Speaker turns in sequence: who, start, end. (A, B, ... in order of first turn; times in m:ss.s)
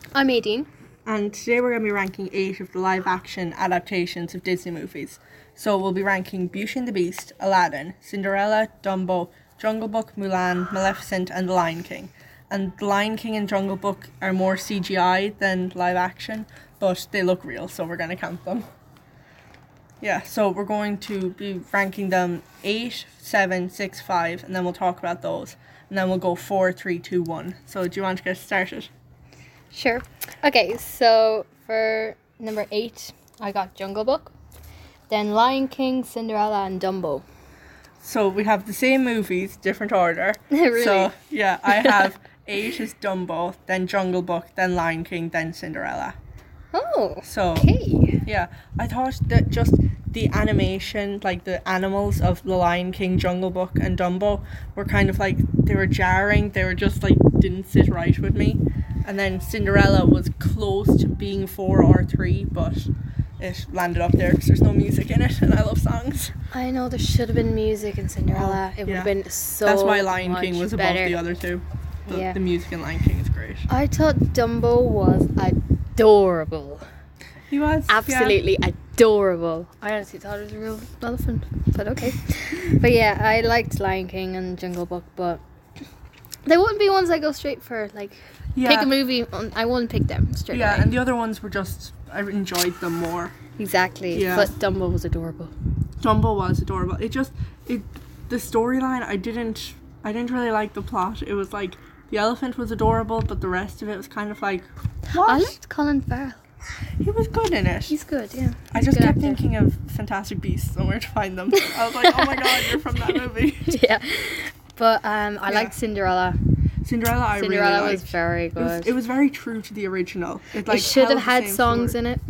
0:00.1-0:00.7 A
0:01.1-0:18.7 B
0:20.0-0:28.9 B
0:29.7-0:34.3 A
0:35.1-0:37.2 A
0:38.0-0:46.2 B
0:40.5-0:41.1 A
0:41.7-0:42.0 A
0:46.7-0:48.2 A
0:47.2-0:47.7 B
0:48.2-1:06.3 B
1:06.5-1:11.2 A
1:08.3-1:09.1 B
1:09.6-1:13.7 B
1:12.1-1:12.4 A
1:13.7-1:16.8 A
1:17.5-1:18.4 B
1:17.9-1:25.4 A
1:26.5-1:31.0 A
1:28.6-1:28.9 B
1:30.5-1:33.4 B
1:33.6-1:35.5 A
1:34.1-1:34.5 B
1:36.0-1:45.6 B
1:45.1-1:46.4 A
1:47.0-1:48.0 B
1:47.9-1:49.4 A
1:48.7-1:53.8 B
1:51.6-1:56.4 A
1:55.5-1:55.7 B
1:56.8-2:02.0 B
1:57.4-1:58.9 A
2:00.7-2:02.2 A